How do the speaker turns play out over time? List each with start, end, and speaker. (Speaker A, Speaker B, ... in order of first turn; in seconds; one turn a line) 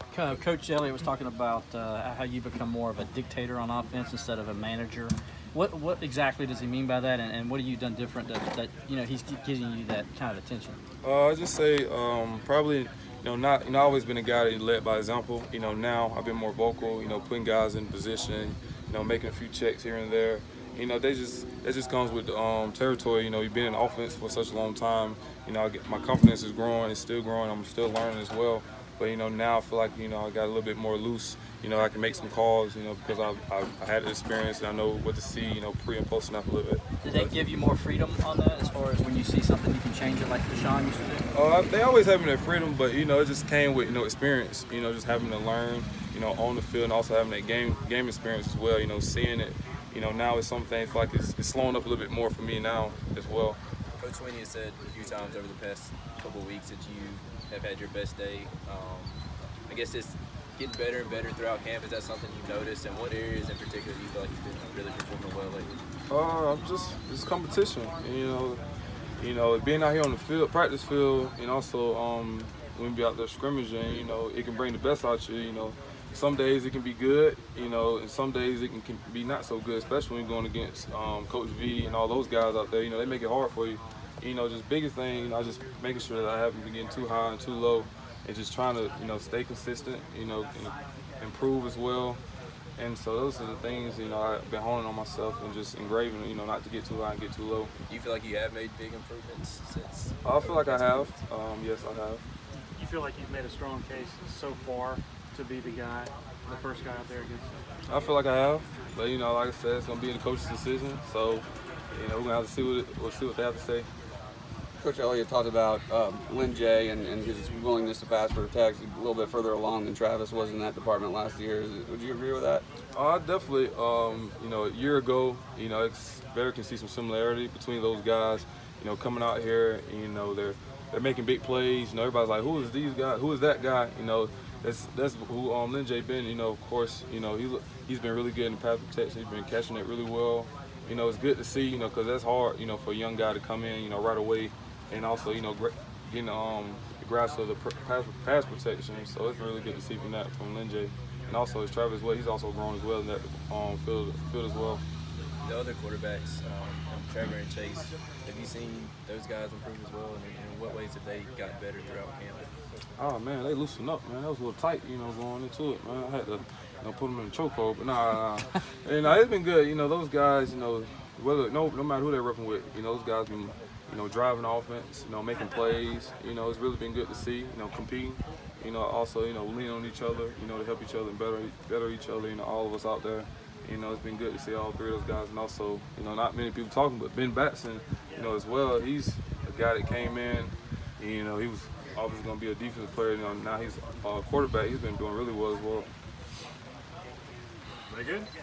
Speaker A: 0.1-10.8
Speaker B: 11.0-36.8
Speaker A: 37.6-41.2
Speaker B: 41.3-53.6
Speaker C: 54.0-65.7
Speaker B: 66.1-68.6
Speaker B: 69.2-92.2
Speaker B: 92.8-97.7
Speaker C: 97.9-101.1
Speaker B: 100.2-102.2
Speaker D: 102.8-108.0
Speaker B: 107.9-113.9
Speaker E: 114.8-122.6
Speaker B: 122.9-154.8
Speaker C: 155.4-162.5
Speaker B: 163.0-195.9
Speaker D: 197.9-198.2